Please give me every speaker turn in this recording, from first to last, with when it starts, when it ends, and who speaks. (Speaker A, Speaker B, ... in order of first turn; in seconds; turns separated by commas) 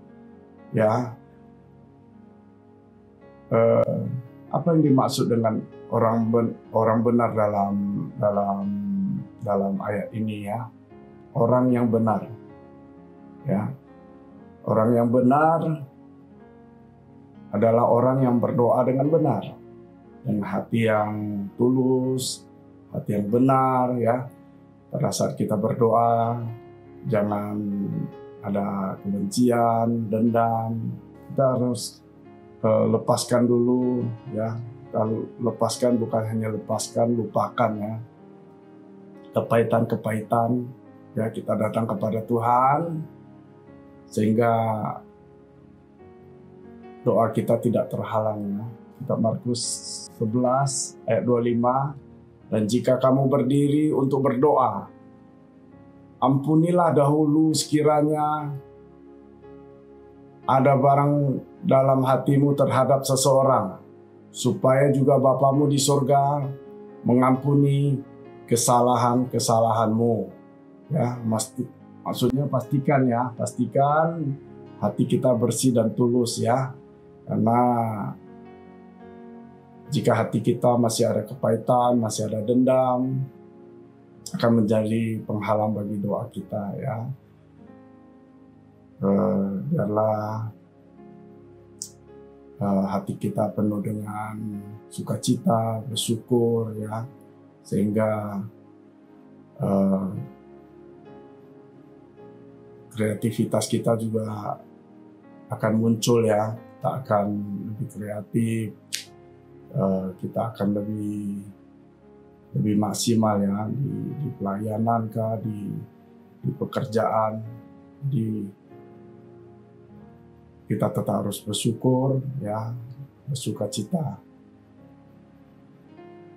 Speaker A: 0.7-1.0, Speaker A: 3.5-10.6, Speaker A: 11.4-12.3, Speaker A: 14.7-15.7, Speaker A: 17.5-19.5, Speaker A: 20.2-24.2, Speaker A: 24.9-26.5, Speaker A: 27.1-32.0, Speaker A: 32.6-38.0, Speaker A: 39.3-40.6, Speaker A: 41.1-43.0, Speaker A: 44.1-45.0, Speaker A: 47.0-52.0, Speaker A: 52.5-54.9, Speaker A: 56.2-58.5, Speaker A: 60.5-63.8, Speaker A: 64.3-66.5, Speaker A: 67.0-70.3, Speaker A: 70.9-76.6, Speaker A: 77.3-78.1, Speaker A: 79.9-83.2, Speaker A: 84.3-87.0, Speaker A: 89.0-90.5, Speaker A: 92.6-97.0, Speaker A: 97.6-98.4, Speaker A: 99.6-100.2, Speaker A: 102.9-104.6, Speaker A: 105.5-108.7, Speaker A: 109.7-111.5, Speaker A: 112.5-115.8, Speaker A: 116.4-117.4, Speaker A: 118.0-118.5, Speaker A: 120.7-122.7, Speaker A: 123.2-124.2